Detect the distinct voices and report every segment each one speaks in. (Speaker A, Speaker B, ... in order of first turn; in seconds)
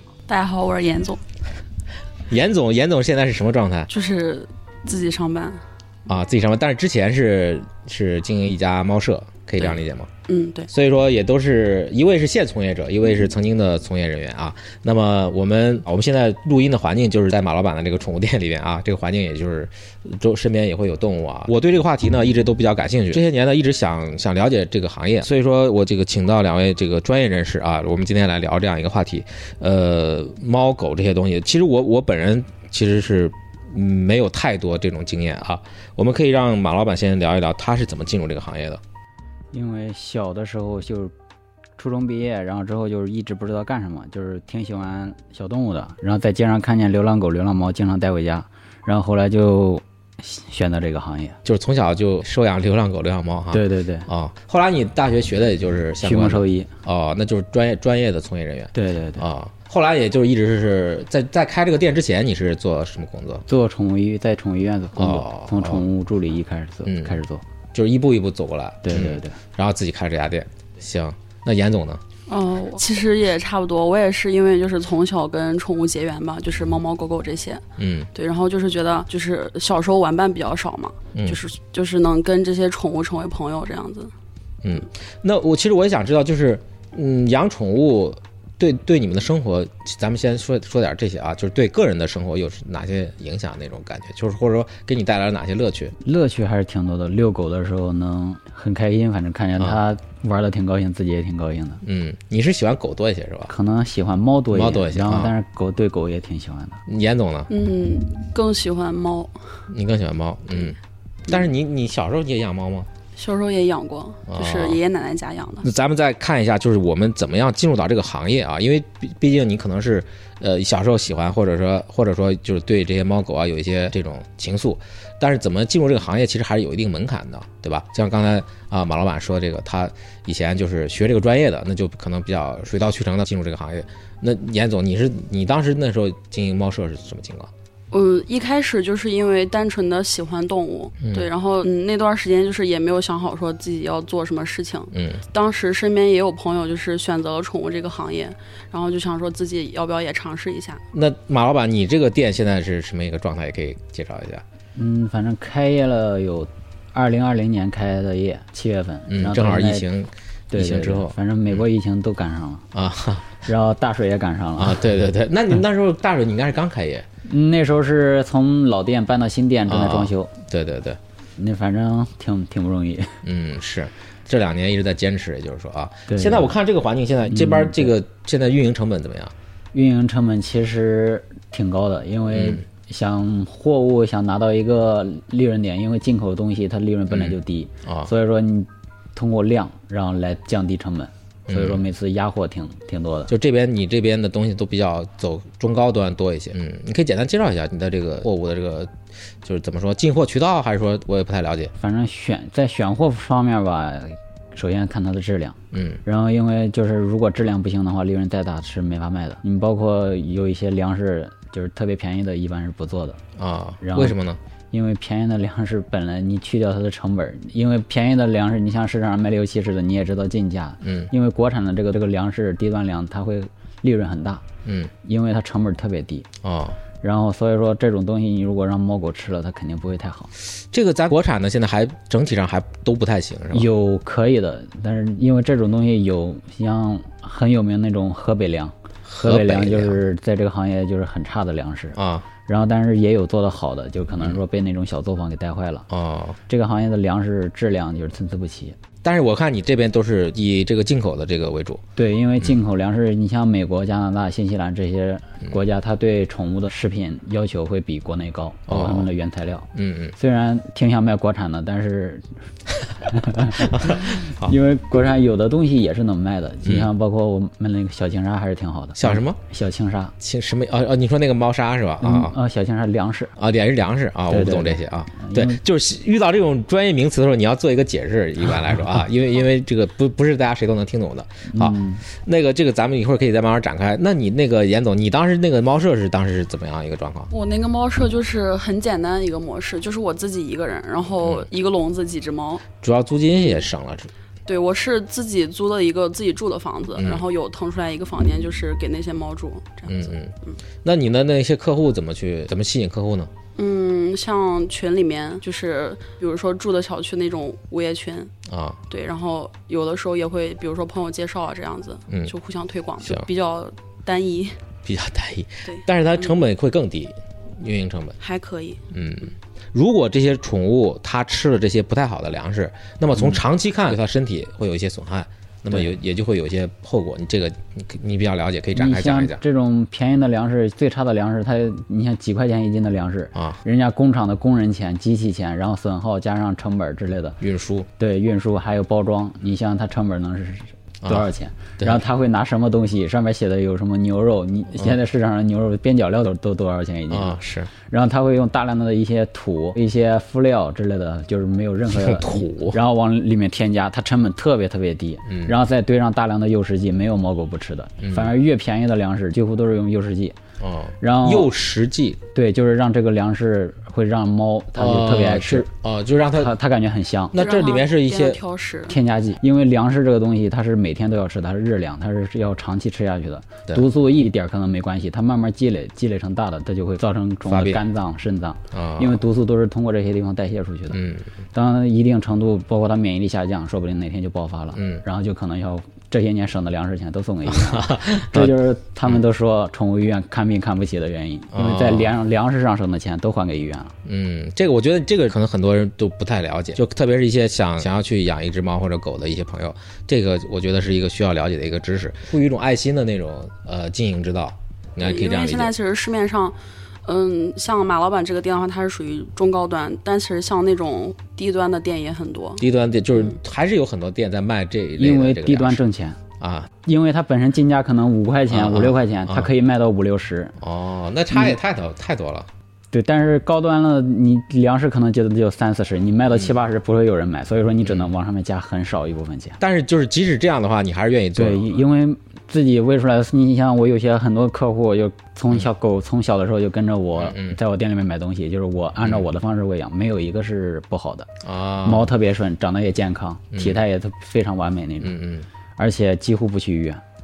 Speaker A: 0.3-1.2, 3.9-5.6, 10.3-10.7, 72.3-84.1, 107.5-109.4, 113.2-115.7, 137.9-150.8, 287.3-292.7, 293.4-293.7, 294.5-300.6, 303.6-308.3, 308.9-314.6, 315.6-316.4, 318.2-318.8, 367.4-369.0, 405.0-412.6
Speaker B: 2.3-3.9, 6.1-10.1, 10.7-38.8, 51.5-63.5, 65.0-65.9, 66.8-67.2, 67.7-72.0, 77.8-78.1, 81.2-81.4, 84.6-96.0, 101.8-103.5, 104.5-105.3, 106.9-107.5, 109.7-112.9, 114.3-114.8, 115.6-137.5, 141.0-141.3, 144.9-145.2, 150.9-154.4, 159.1-161.2, 162.7-163.4, 164.6-167.1, 169.7-171.0, 173.2-179.3, 182.3-182.6, 187.1-188.1, 191.5-191.8, 193.3-201.7, 205.7-206.0, 213.4-214.4, 220.8-221.1, 224.6-224.9, 226.4-226.8, 230.6-233.7, 239.1-240.0, 242.0-242.3, 245.9-246.4, 249.0-251.8, 258.7-259.1, 259.7-260.1, 263.4-264.6, 266.6-266.9, 268.9-269.4, 270.2-272.4, 273.4-287.3, 291.2-291.5, 292.8-294.1, 297.0-297.2, 299.9-303.3, 308.5-308.8, 314.9-318.2, 318.9-329.4, 333.4-333.6, 337.4-337.9, 341.0-341.3, 347.1-347.7, 351.9-352.8, 355.3-355.6, 358.0-358.4, 360.6-362.2, 364.8-366.6, 367.3-368.4, 377.5-377.8, 378.7-379.2, 380.9-381.3, 384.8-385.0, 387.5-388.6, 391.5-392.2, 394.1-405.7, 412.6-415.8, 416.4-416.7, 418.5-419.5, 420.6-422.5, 427.8-428.1, 429.6-431.8, 437.2-437.6, 441.4-442.1, 443.5-443.8, 445.0-445.5
Speaker C: 39.5-41.1, 41.8-51.4, 53.5-54.1, 56.0-56.7, 58.7-59.2, 63.5-67.4, 68.8-69.4, 96.0-101.8, 103.5-106.8, 154.8-159.9, 160.5-162.7, 163.4-164.9, 167.3-170.3, 171.4-173.2, 176.1-176.6, 177.3-177.9, 179.7-193.3, 201.8-213.2, 213.8-214.2, 214.7-224.4, 225.0-226.3, 227.0-230.3, 233.5-245.9, 246.5-248.8, 252.0-262.3, 263.0-270.1, 272.0-273.3, 274.3-275.6, 281.5-282.0, 328.7-337.4, 338.0-360.4, 361.0-361.5, 362.3-365.7, 366.3-367.4, 368.9-381.0, 381.5-393.9, 415.0-416.2, 416.8-420.6, 422.9-429.6, 431.4-441.3, 441.8-445.2, 445.8-447.0